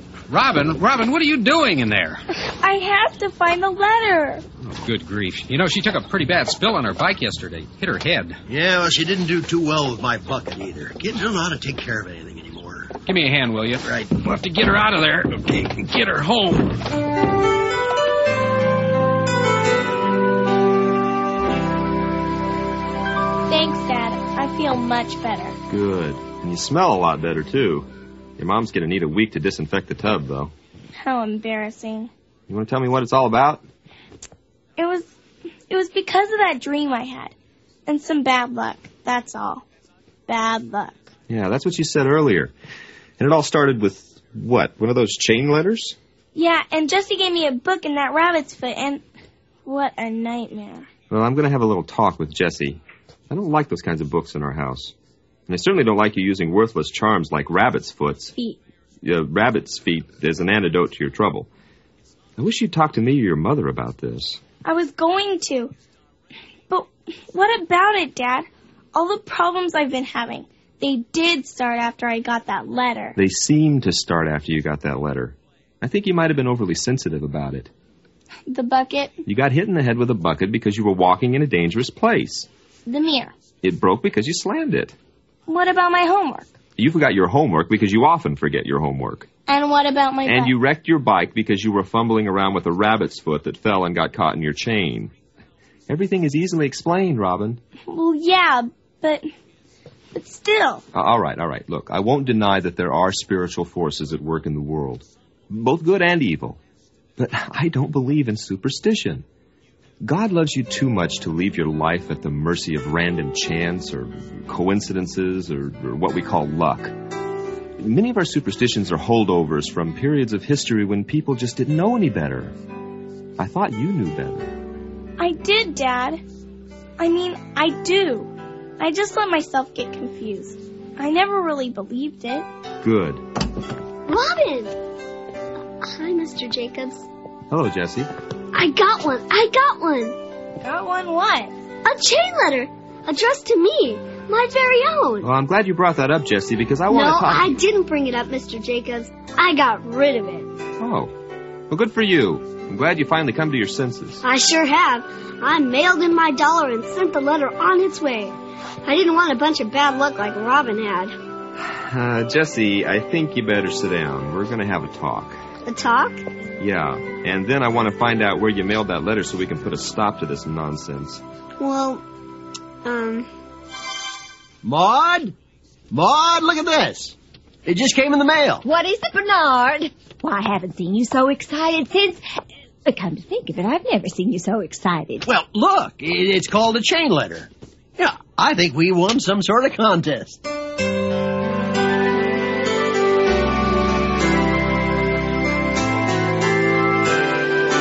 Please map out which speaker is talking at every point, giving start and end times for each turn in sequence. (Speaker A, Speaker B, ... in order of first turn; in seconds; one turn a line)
Speaker A: 0.3-2.2
Speaker B: 2.6-4.4
Speaker A: 4.7-8.4
Speaker C: 8.5-12.9
Speaker A: 13.1-16.7
Speaker C: 13.8-14.2
Speaker B: 23.5-25.6
Speaker D: 25.7-30.5
Speaker B: 30.9-32.1
Speaker D: 32.5-33.6
Speaker B: 34.8-35.1
Speaker B: 35.7-37.4
Speaker B: 37.9-39.6
Speaker B: 40.3-41.1
Speaker D: 41.3-42.5
Speaker D: 43.2-46.0
Speaker B: 46.4-49.0
Speaker B: 49.6-50.9
Speaker D: 51.1-52.8
Speaker D: 53.3-54.9
Speaker D: 55.5-58.3
Speaker D: 59.0-61.5
Speaker D: 62.4-64.4
Speaker B: 64.6-65.7
Speaker B: 66.7-73.2
Speaker D: 73.2-77.7
Speaker B: 78.5-79.2
Speaker D: 79.3-82.5
Speaker B: 82.9-83.3
Speaker D: 83.6-85.0
Speaker B: 85.5-86.5
Speaker D: 86.8-89.3
Speaker B: 89.5-90.5
Speaker D: 90.3-95.1
Speaker D: 95.9-97.6
Speaker B: 97.9-99.3
Speaker B: 100.1-100.8
Speaker D: 100.9-106.6
Speaker D: 107.2-109.2
Speaker D: 110.0-116.9
Speaker D: 117.8-122.5
Speaker D: 123.4-124.5
Speaker B: 125.2-126.2
Speaker B: 127.0-132.5
Speaker D: 132.8-133.2
Speaker E: 134.1-134.8
Speaker E: 135.8-137.1
Speaker D: 137.5-138.1
Speaker E: 138.5-140.2
Speaker B: 140.6-141.5
Speaker E: 141.8-145.3
Speaker D: 145.2-147.6
Speaker E: 146.9-150.5
Speaker D: 150.8-151.1
Speaker D: 151.7-154.2
Speaker E: 154.2-161.1
Speaker D: 161.6-165.4
Speaker E: 165.7-166.2
Speaker D: 166.6-171.2
Speaker E: 171.6-172.0
Speaker E: 172.8-173.3
Speaker C: 174.6-175.3
Speaker C: 175.9-178.6
Speaker F: 178.6-182.2
Speaker F: 182.8-185.3
Speaker C: 185.2-190.4